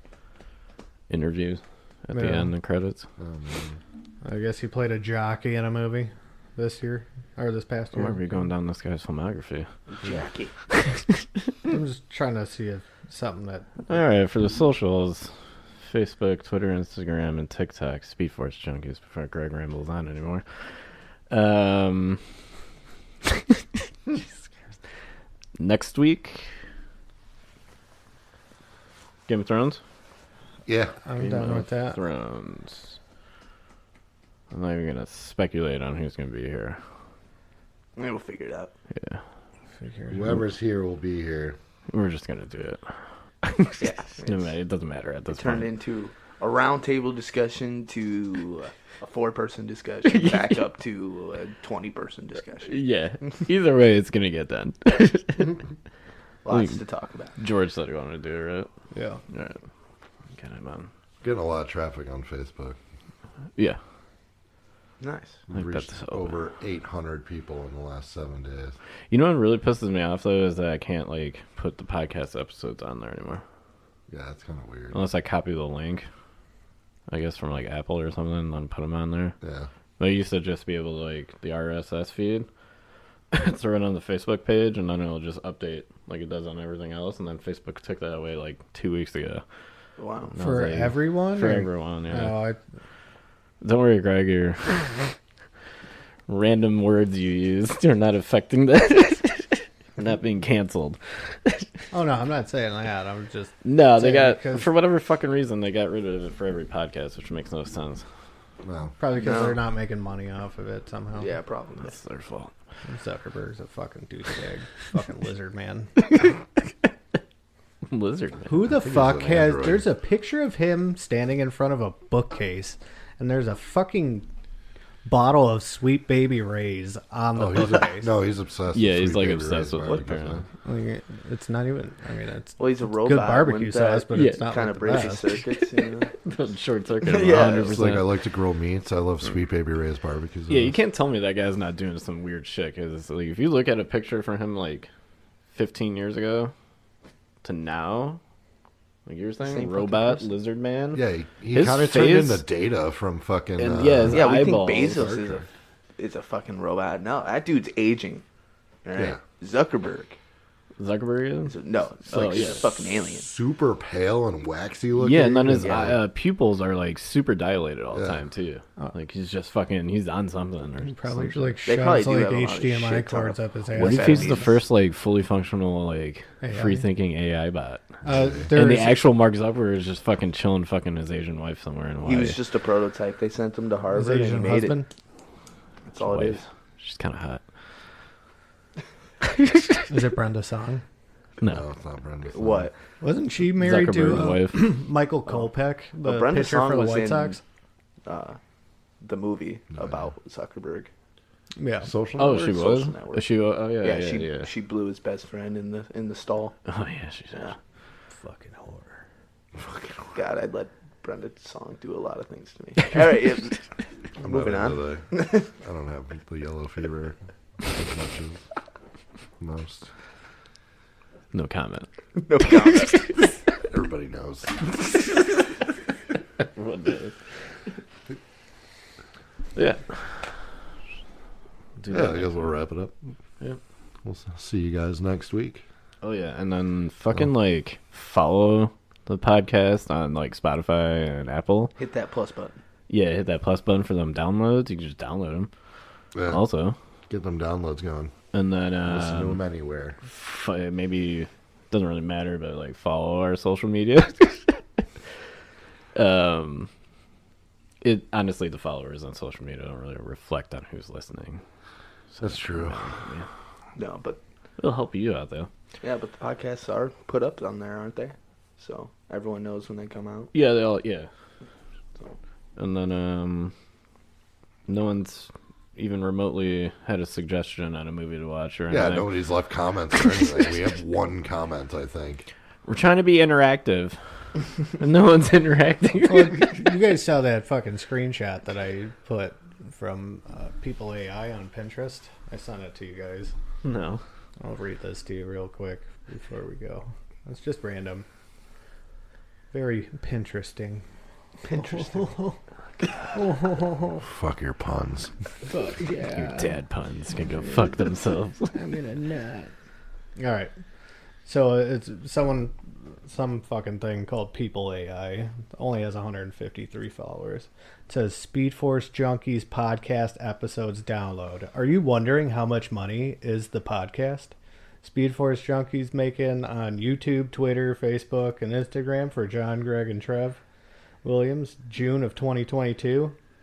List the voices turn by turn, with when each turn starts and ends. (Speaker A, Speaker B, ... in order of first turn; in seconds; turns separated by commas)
Speaker A: 1.1-3.0, Speaker B: 2.1-2.5, Speaker C: 3.2-3.8, Speaker B: 4.2-8.3, Speaker A: 7.9-9.7, Speaker D: 9.9-10.5, Speaker A: 10.7-11.2, Speaker B: 11.7-14.0, Speaker A: 13.9-15.3, Speaker A: 15.8-20.7, Speaker A: 21.3-22.2, Speaker A: 23.2-24.3, Speaker A: 25.6-26.5, Speaker A: 29.3-29.8, Speaker C: 30.7-31.0, Speaker B: 31.1-32.0, Speaker A: 31.2-33.0, Speaker A: 34.5-36.8, Speaker D: 38.0-38.7, Speaker A: 39.0-39.2, Speaker B: 39.8-40.3, Speaker C: 40.1-41.6, Speaker A: 41.9-42.9, Speaker A: 43.4-45.7, Speaker D: 43.8-44.5, Speaker D: 45.3-52.8, Speaker A: 50.0-50.6, Speaker A: 52.6-55.6, Speaker D: 56.5-57.3, Speaker A: 56.5-56.8, Speaker A: 57.4-58.7, Speaker B: 58.9-59.2, Speaker A: 59.3-59.6, Speaker A: 60.4-60.9, Speaker C: 61.2-62.8, Speaker D: 65.0-65.4, Speaker C: 65.5-68.8, Speaker A: 65.5-66.3, Speaker A: 69.1-73.4, Speaker C: 74.1-75.0, Speaker A: 74.9-76.1, Speaker A: 77.1-79.3, Speaker C: 79.4-79.7, Speaker A: 80.0-82.5, Speaker A: 83.3-89.4, Speaker D: 90.0-90.3, Speaker A: 90.3-92.4, Speaker B: 90.4-92.6, Speaker A: 93.6-95.1, Speaker A: 96.3-101.7, Speaker B: 101.9-104.7, Speaker A: 103.6-108.0, Speaker C: 108.7-109.0, Speaker B: 109.0-111.3, Speaker D: 109.2-109.6, Speaker D: 111.2-112.0, Speaker A: 111.8-112.5, Speaker B: 112.9-116.0, Speaker A: 117.9-118.5, Speaker B: 118.5-124.3, Speaker C: 118.7-119.9, Speaker B: 125.0-128.1, Speaker C: 127.4-130.4, Speaker A: 128.7-130.4, Speaker B: 130.7-135.4, Speaker D: 132.6-136.1, Speaker A: 134.1-134.4, Speaker A: 136.2-138.1, Speaker D: 137.0-137.8, Speaker C: 137.7-140.8, Speaker A: 140.5-144.9, Speaker A: 145.5-146.5, Speaker A: 147.4-148.2, Speaker A: 149.1-152.4, Speaker D: 149.4-150.3, Speaker C: 150.9-155.5, Speaker A: 153.6-155.1, Speaker D: 154.1-155.5, Speaker D: 156.0-158.2, Speaker D: 158.8-160.2, Speaker A: 160.8-162.7, Speaker D: 161.5-163.3, Speaker C: 163.2-166.0, Speaker A: 165.0-171.6, Speaker D: 165.6-166.0, Speaker C: 167.9-168.2, Speaker B: 170.8-174.5, Speaker D: 171.7-174.6, Speaker A: 173.8-177.8, Speaker B: 176.4-176.9, Speaker B: 178.0-179.0, Speaker A: 178.5-182.4, Speaker D: 182.1-184.8, Speaker B: 183.9-184.9, Speaker D: 185.9-186.5, Speaker A: 186.0-187.4, Speaker A: 189.2-189.8, Speaker B: 189.9-190.8, Speaker C: 191.5-192.7, Speaker D: 192.3-192.7, Speaker B: 193.0-197.4, Speaker A: 193.6-194.7, Speaker D: 195.3-197.4, Speaker D: 198.1-198.4, Speaker D: 199.0-200.9, Speaker B: 201.6-201.9, Speaker C: 201.8-202.6, Speaker A: 202.2-204.5, Speaker D: 202.2-203.3, Speaker D: 203.8-206.6, Speaker A: 206.7-207.5, Speaker B: 208.1-209.0, Speaker D: 210.1-213.6, Speaker D: 214.2-215.5, Speaker C: 214.2-218.4, Speaker C: 219.4-219.9, Speaker A: 221.3-221.9, Speaker D: 222.2-223.2, Speaker A: 222.5-222.8, Speaker C: 223.7-224.8, Speaker A: 226.6-227.2, Speaker A: 229.6-230.3, Speaker A: 231.8-232.4, Speaker C: 231.9-232.9, Speaker C: 234.0-235.6, Speaker A: 236.0-241.8, Speaker D: 241.8-242.6, Speaker A: 242.9-245.5, Speaker C: 246.2-246.4, Speaker A: 246.3-246.8, Speaker C: 247.1-248.1, Speaker A: 248.3-249.4, Speaker C: 248.8-250.0, Speaker A: 250.1-254.6, Speaker A: 255.9-256.7, Speaker A: 257.8-261.4, Speaker A: 262.1-263.3, Speaker C: 262.2-262.8, Speaker D: 263.8-264.2, Speaker A: 264.6-265.5, Speaker D: 265.8-270.3, Speaker A: 270.3-271.1, Speaker A: 272.6-273.5, Speaker A: 274.7-279.1, Speaker C: 278.7-282.3, Speaker A: 282.7-284.0, Speaker A: 284.8-286.6, Speaker B: 286.0-293.3, Speaker A: 293.6-294.0, Speaker B: 294.4-298.1, Speaker B: 299.5-300.8, Speaker D: 301.4-302.2, Speaker B: 301.5-302.4, Speaker B: 303.1-304.1, Speaker C: 304.0-305.1, Speaker B: 305.5-306.6, Speaker A: 306.0-308.6, Speaker B: 307.3-307.8, Speaker B: 308.5-309.5, Speaker B: 310.2-310.5, Speaker B: 311.2-312.5, Speaker B: 313.1-330.4, Speaker B: 331.0-333.2